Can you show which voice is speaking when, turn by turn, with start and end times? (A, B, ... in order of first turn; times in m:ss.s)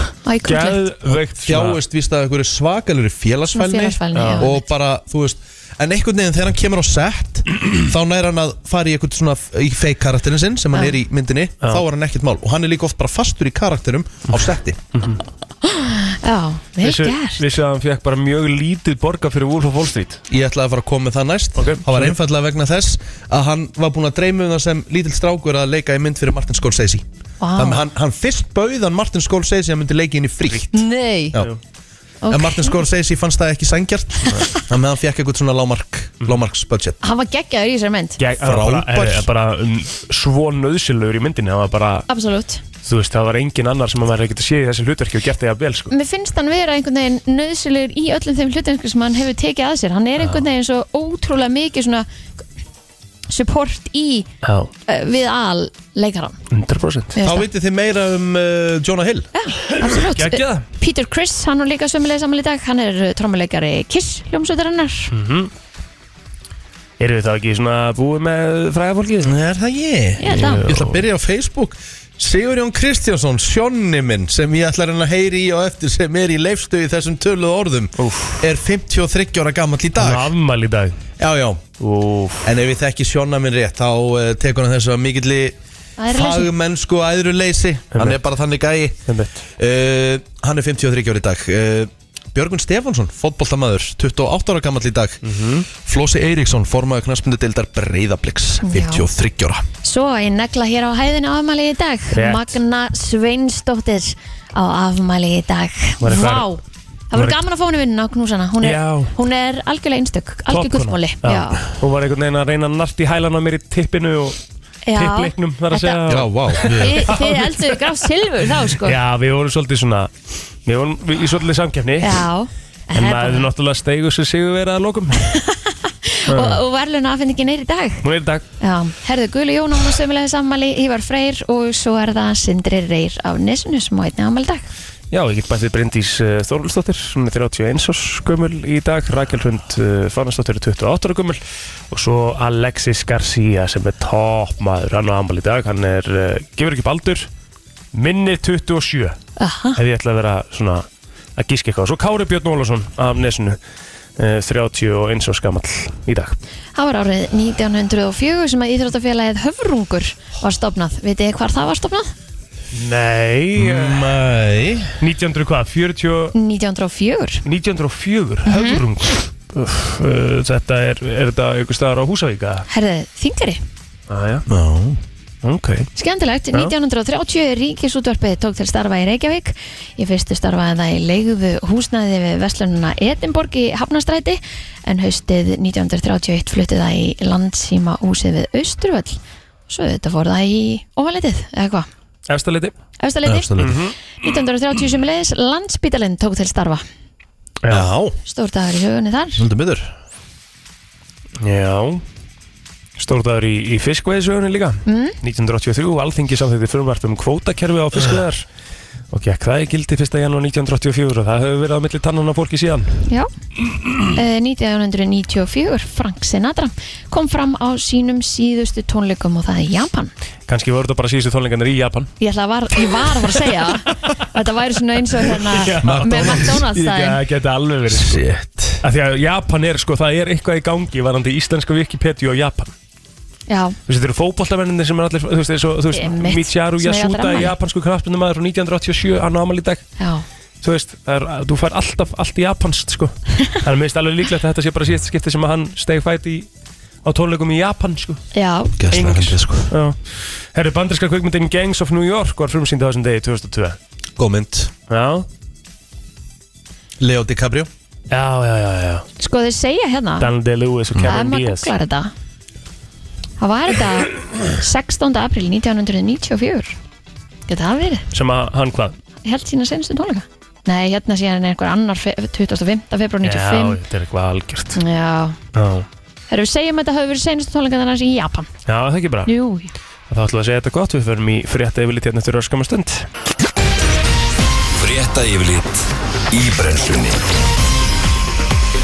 0:00.2-0:00.8 A
0:00.4-0:01.8 B
0:01.1-0:14.8 C
0:03.5-0:04.6 A
0:04.1-0:04.5 B
0:14.3-0:15.2 B
0:15.6-0:17.4 A
0:16.8-0:20.2 B
0:20.3-0:27.0 C
0:21.6-0:22.2 B
0:27.4-0:27.8 A
0:27.6-0:30.8 C
0:30.7-0:31.4 A
0:32.2-0:32.8 A
0:32.3-0:37.0 C
0:37.0-0:38.2 A
0:38.2-0:42.0 B
0:38.4-0:39.3 C
0:42.1-0:42.6 A
0:42.8-0:45.9 B
0:45.9-0:52.0 A
0:53.3-0:54.3 A
0:54.4-0:54.7 B
0:54.8-0:56.4 A
0:56.5-0:57.1 B
0:57.2-0:57.4 A
0:57.2-0:59.3 C
0:59.3-1:05.1 A
0:59.7-1:00.6 B
1:05.1-1:05.5 B
1:07.0-1:09.3 B
1:09.2-1:20.3 C
1:10.2-1:10.7 A
1:10.3-1:11.0 B
1:18.0-1:18.4 B
1:20.0-1:20.9 B
1:21.2-1:21.6 C
1:21.8-1:22.5 B
1:22.4-1:25.6 C
1:26.0-1:26.5 A
1:26.1-1:29.0 C
1:27.9-1:28.2 B
1:29.1-1:29.4 B
1:29.6-1:39.6 C
1:35.2-1:35.6 B
1:38.6-1:39.0 A
1:39.8-1:51.6 A
1:42.1-1:42.6 B
1:46.0-1:46.5 B
1:48.6-1:49.1 B
1:50.5-1:54.4 B
1:54.8-1:56.0 A
1:54.9-1:57.8 B
1:56.1-1:57.1 C
1:56.6-1:59.0 A
1:58.8-2:00.1 B
2:00.6-2:02.3 B
2:02.0-2:03.5 A
2:02.9-2:05.2 B
2:05.2-2:08.0 A
2:06.3-2:06.6 B
2:08.0-2:08.4 B
2:08.6-2:14.6 A
2:15.1-2:21.4 B
2:21.9-2:27.3 B
2:27.9-2:29.2 B
2:29.4-2:29.8 A
2:29.8-2:30.8 B
2:31.4-2:33.6 B
2:34.2-2:36.4 B
2:36.8-2:42.1 A
2:42.7-2:44.2 B
2:43.5-2:45.0 C
2:45.0-2:46.3 B
2:46.3-2:47.4 A
2:47.4-2:52.7 B
2:48.4-2:48.8 A
2:52.7-2:53.6 A
2:54.1-2:54.4 B
2:54.5-2:55.0 C
2:55.4-2:55.9 B
2:55.9-3:11.9 A
3:12.3-3:12.7 B
3:13.0-3:13.5 A
3:13.2-3:13.8 C
3:13.6-3:13.9 B
3:14.2-3:16.8 A
3:17.6-3:17.9 B
3:17.7-3:18.2 C
3:18.2-3:19.4 A
3:19.4-3:19.9 C
3:21.4-3:22.0 B
3:23.0-3:28.4 B
3:24.8-3:25.2 A
3:29.1-3:33.0 B
3:34.1-3:40.1 A
3:40.5-3:42.1 B
3:42.2-3:47.2 A
3:43.0-3:44.2 B
3:45.3-3:48.2 B
3:45.8-3:46.6 C
3:47.9-3:48.8 C
3:48.8-3:52.7 B
3:53.5-3:53.8 A
3:53.9-3:59.8 B
3:55.9-3:57.5 A
4:00.0-4:00.2 A
4:00.6-4:06.5 B
4:07.0-4:08.2 B
4:08.3-4:08.8 A
4:08.8-4:09.7 C
4:08.9-4:13.8 B
4:14.2-4:14.7 C
4:14.9-4:15.2 B
4:17.0-4:17.7 C
4:18.1-4:19.0 B
4:19.2-4:20.3 A
4:20.2-4:21.7 B
4:21.0-4:22.1 A
4:23.4-4:26.8 A
4:27.5-4:28.0 A
4:28.1-4:29.0 B
4:29.2-4:33.8 A
4:33.2-4:34.8 B
4:34.7-4:35.4 A
4:35.5-4:35.8 B
4:36.3-4:38.5 A
4:38.7-4:39.3 B
4:39.2-4:39.7 A
4:40.1-4:43.0 B
4:44.8-4:47.2 D